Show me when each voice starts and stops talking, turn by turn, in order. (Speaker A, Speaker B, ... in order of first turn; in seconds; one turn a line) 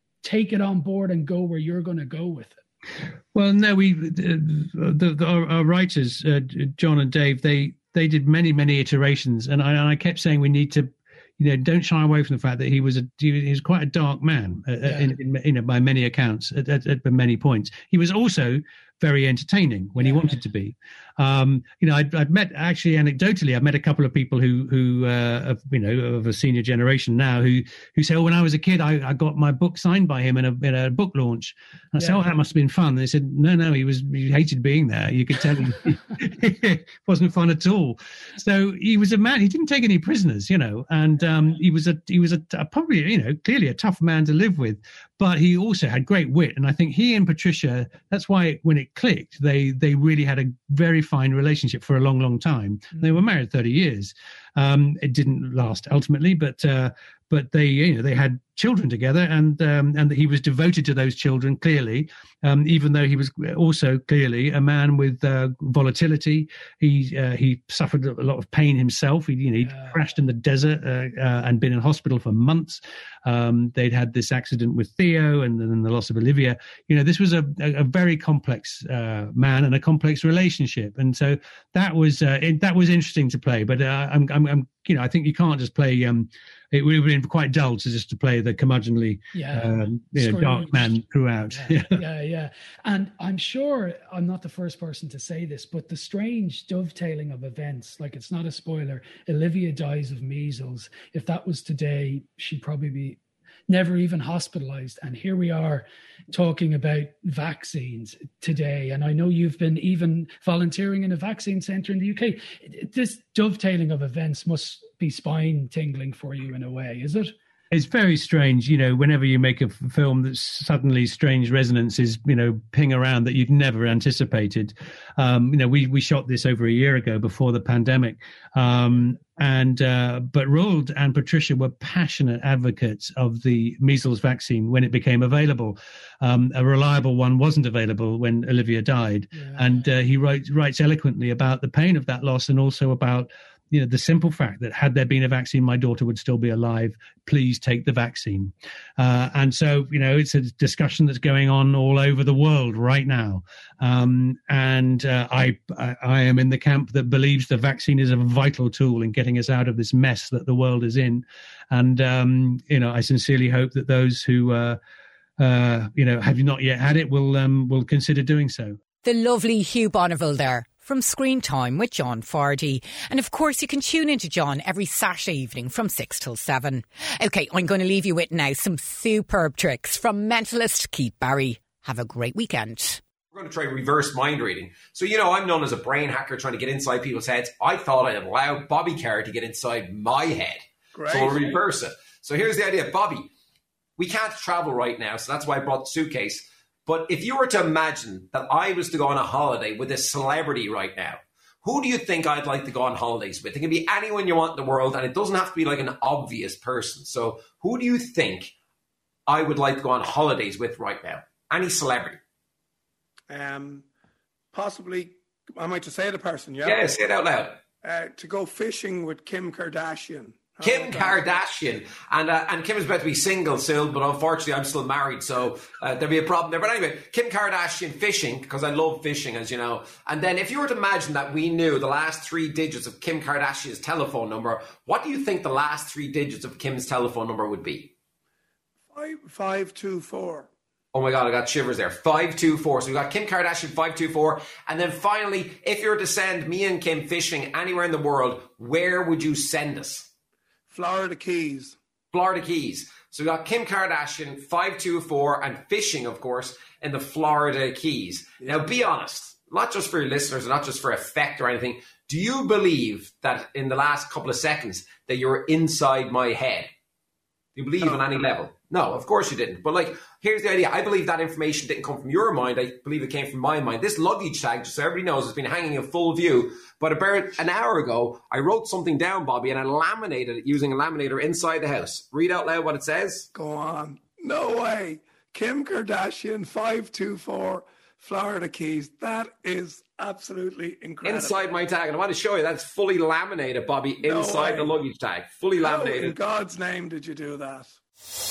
Speaker A: 0.2-2.6
Speaker B: 3.3-92.0
Speaker A: 14.8-15.1
Speaker A: 20.0-20.3
Speaker A: 32.0-32.2
Speaker A: 41.2-41.5
Speaker A: 69.6-70.0
Speaker A: 89.3-91.0
Speaker A: 91.5-103.2
Speaker A: 103.7-117.3
Speaker B: 117.7-164.8
Speaker A: 139.3-139.9
Speaker B: 165.4-168.8
Speaker C: 169.0-183.0
Speaker D: 183.3-193.3
Speaker E: 190.9-191.6
Speaker D: 194.0-208.5
Speaker D: 209.3-212.2
Speaker E: 213.3-213.9
Speaker E: 214.5-216.9
Speaker D: 216.6-217.6
Speaker E: 217.8-221.5
Speaker D: 220.6-237.9
Speaker E: 238.9-240.5
Speaker D: 240.9-250.1
Speaker E: 250.7-251.8
Speaker D: 252.1-266.7
Speaker E: 258.4-258.7
Speaker D: 267.6-283.3
Speaker E: 283.3-291.5
Speaker D: 291.0-296.1
Speaker E: 294.0-294.8
Speaker E: 295.6-297.8